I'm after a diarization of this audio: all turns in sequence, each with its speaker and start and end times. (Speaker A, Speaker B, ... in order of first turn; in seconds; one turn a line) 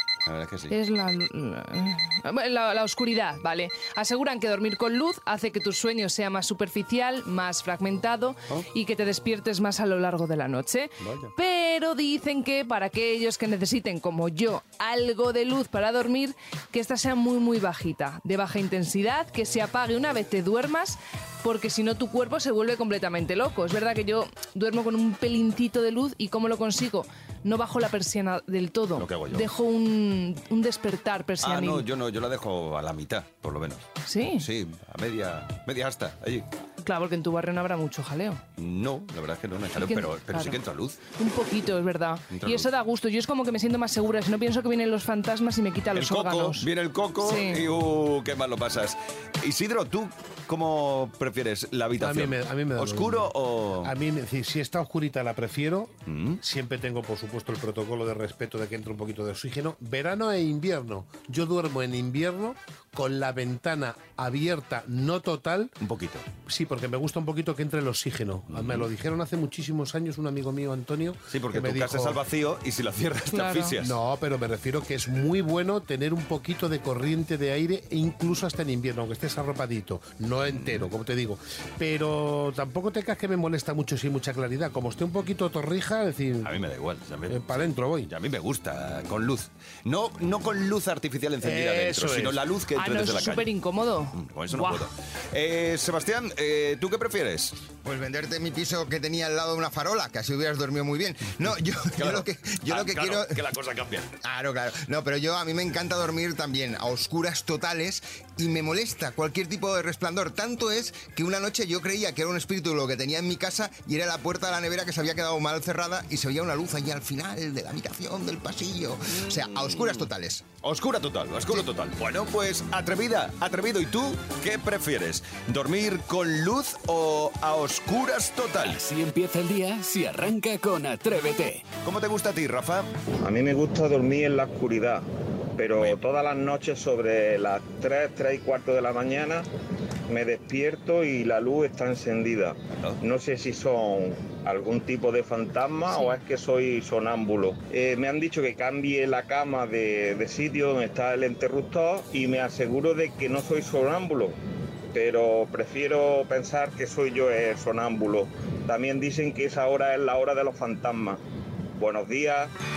Speaker A: 0.2-0.7
Speaker B: 0.7-31.9
Speaker A: 11.0-11.3
Speaker A: 29.0-29.5
Speaker A: 31.4-33.8
Speaker B: 34.0-34.5
Speaker A: 34.4-36.5
Speaker B: 36.8-38.4
Speaker A: 38.6-41.0
Speaker B: 39.8-40.6
Speaker B: 41.1-46.7
Speaker A: 42.3-42.7
Speaker A: 45.9-53.9
Speaker B: 47.2-47.7
Speaker C: 52.0-53.3
Speaker C: 53.8-65.7
Speaker A: 56.0-56.4
Speaker A: 65.8-66.4
Speaker C: 66.3-72.2
Speaker A: 68.5-68.9
Speaker A: 71.3-74.0
Speaker B: 73.3-73.8
Speaker C: 73.8-86.5
Speaker A: 80.5-80.9
Speaker A: 86.4-93.5
Speaker C: 87.3-88.1
Speaker C: 91.4-92.4
Speaker B: 92.7-94.9
Speaker A: 94.1-97.5
Speaker D: 97.8-103.4
Speaker A: 101.9-104.1
Speaker D: 104.2-120.5
Speaker A: 119.2-128.8
Speaker E: 128.6-131.7
Speaker A: 131.8-132.9
Speaker F: 133.2-135.0
Speaker F: 135.6-139.5
Speaker F: 140.1-154.4
Speaker B: 145.9-146.2
Speaker F: 154.9-161.2
Speaker F: 161.8-162.5